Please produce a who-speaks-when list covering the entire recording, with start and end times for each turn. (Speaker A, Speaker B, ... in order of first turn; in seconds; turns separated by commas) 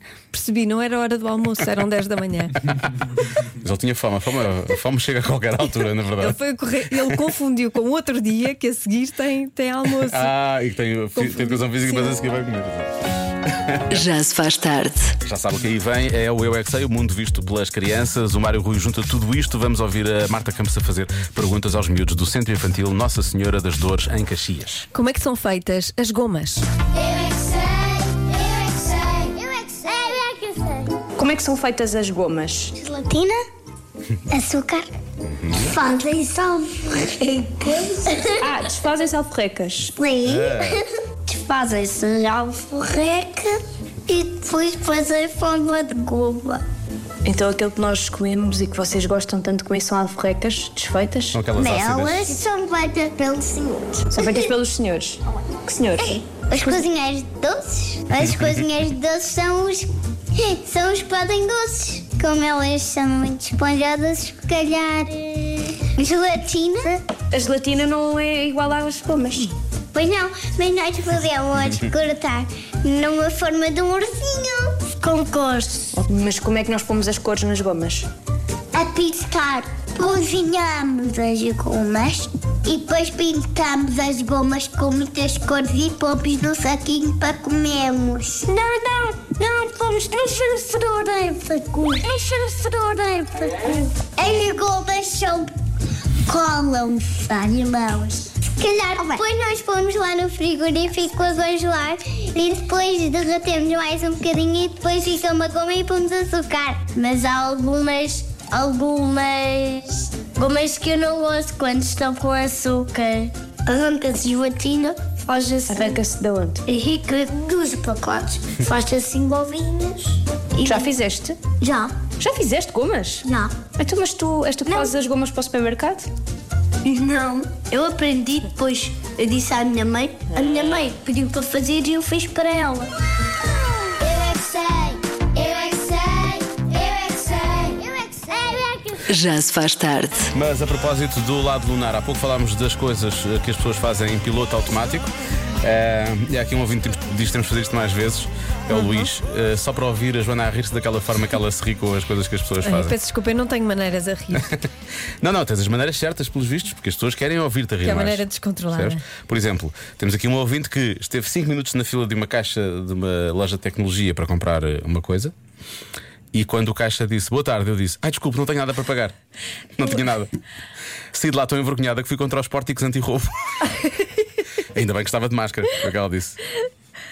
Speaker A: 0.3-2.6, Speaker B: 3.6-7.2, Speaker A: 6.2-10.3, Speaker B: 9.9-14.0, Speaker A: 11.1-12.2, Speaker C: 13.9-15.1, Speaker B: 15.2-24.9, Speaker A: 24.9-26.6, Speaker D: 26.9-30.9, Speaker E: 31.2-32.7, Speaker D: 32.7-33.4, Speaker D: 34.3-34.9, Speaker B: 35.2-35.8, Speaker D: 35.6-37.1, Speaker E: 37.4-39.9, Speaker D: 37.6-38.3, Speaker D: 39.9-43.5, Speaker B: 40.2-40.8, Speaker E: 41.3-42.9, Speaker D: 44.1-46.6, Speaker E: 47.2-51.4, Speaker B: 51.3-52.3, Speaker D: 51.5-54.5, Speaker E: 54.1-56.8, Speaker D: 56.0-67.0, Speaker E: 67.3-69.5, Speaker D: 69.9-75.9, Speaker E: 75.9-78.1, Speaker D: 78.7-88.6, Speaker E: 88.6-89.3, Speaker D: 89.3-95.5, Speaker D: 96.3-116.0, Speaker E: 115.7-116.6, Speaker D: 116.7-120.8, Speaker E: 120.6-121.4, Speaker D: 121.6-121.9, Speaker E: 122.2-126.1, Speaker D: 123.2-123.5, Speaker D: 124.7-124.9, Speaker D: 126.8-132.9, Speaker D: 134.0-139.0, Speaker C: 139.1-140.3, Speaker B: 140.3-153.0, Speaker A: 148.7-149.1, Speaker A: 152.6-154.6, Speaker B: 154.3-154.7, Speaker B: 155.2-165.3, Speaker A: 157.8-159.0, Speaker B: 166.3-169.2, Speaker B: 169.8-170.3, Speaker B: 171.1-173.5, Speaker B: 174.7-176.4